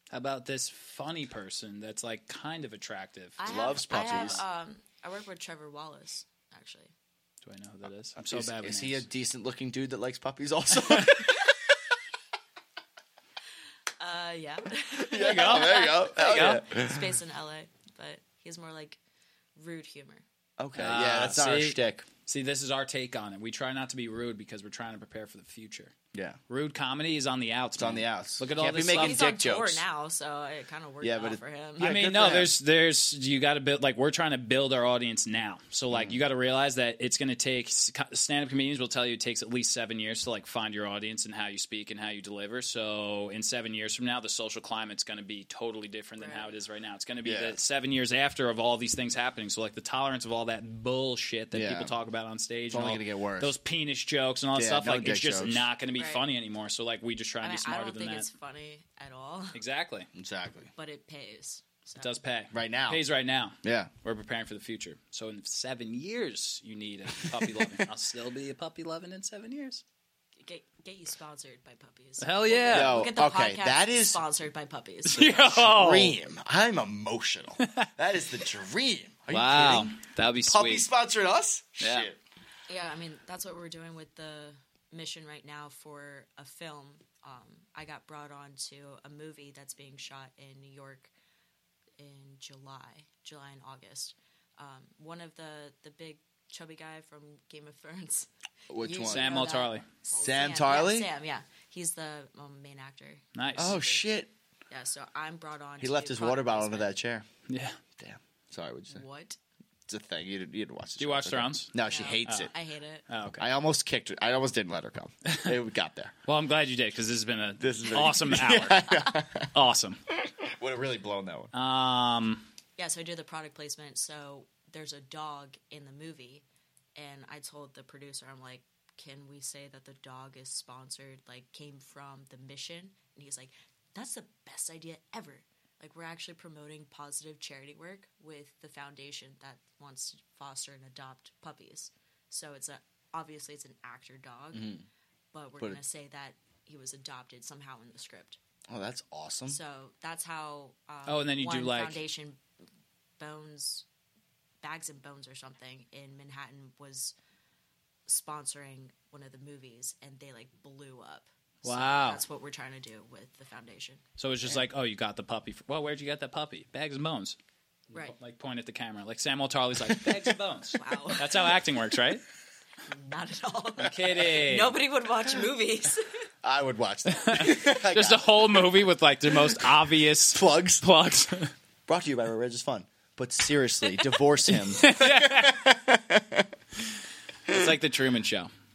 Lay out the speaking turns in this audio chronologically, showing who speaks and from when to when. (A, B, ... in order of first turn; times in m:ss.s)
0:00.1-0:04.4 A
0:03.4-0:06.9 B
0:03.5-0:04.4 C
0:07.4-0:09.0 A
0:08.2-0:11.8 C
0:14.0-0:19.0 B
0:15.0-0:17.1 C
0:15.2-0:16.6 A
0:19.6-0:20.2 B
0:20.6-0:22.1 C
0:20.8-0:25.9 A
0:26.1-0:26.4 C
0:26.5-0:29.3 A
0:27.8-0:29.8 C
0:28.9-0:31.9 B
0:31.0-0:32.6 C
0:31.8-0:58.3 A
0:35.9-0:36.2 C
0:46.2-0:46.5 B
0:47.2-0:47.6 C
0:51.5-0:52.0 C
0:52.7-0:53.5 C
0:54.6-0:55.6 C
0:56.0-0:56.2 B
0:57.4-0:59.6 B
0:59.5-1:00.1 A
1:00.1-1:00.7 C
1:00.8-1:02.2 B
1:02.0-1:09.8 A
1:02.5-1:03.0 C
1:03.6-1:03.9 C
1:07.2-1:07.8 C
1:10.4-1:15.6 B
1:12.2-1:13.0 A
1:12.7-1:14.2 C
1:15.0-1:16.2 A
1:15.5-1:22.2 C
1:17.6-1:17.9 A
1:19.3-1:20.8 A
1:21.8-1:22.1 A
1:22.7-1:31.1 B
1:32.0-1:44.1 B
1:38.7-1:39.3 C
1:39.1-1:39.8 A
1:40.2-1:41.1 C
1:43.4-1:43.8 A
1:43.6-1:44.3 C
1:44.7-1:46.9 B
1:45.8-1:47.3 C
1:47.5-1:47.8 A
1:48.0-1:49.0 C
1:48.9-1:49.4 B
1:49.9-1:52.5 C
1:51.0-1:51.7 A
1:51.8-1:53.0 B
1:52.2-1:52.5 A
1:53.1-1:53.5 A
1:53.4-1:56.2 C
1:55.3-1:55.6 A
1:56.3-2:00.0 A
1:57.6-1:59.5 C
2:00.1-2:01.5 C
2:01.5-2:02.4 A
2:02.8-2:06.4 B
2:07.0-2:24.8 B
2:24.5-2:24.8 C
2:25.3-2:28.4 B
2:28.7-2:29.6 C
2:29.5-2:32.4 B
2:31.1-2:32.0 A
2:33.2-2:33.8 B
2:34.6-2:37.2 B
2:38.1-2:44.0 B
2:41.6-2:42.2 A
2:44.2-2:47.4 A
2:47.9-2:52.2 A
2:50.7-2:51.6 B
2:52.9-2:56.1 B
2:53.8-2:54.8 A
2:56.4-2:59.7 C
2:57.1-3:01.5 A
3:00.3-3:00.8 C
3:01.9-3:06.5 C
3:04.6-3:05.7 A
3:07.5-3:08.5 A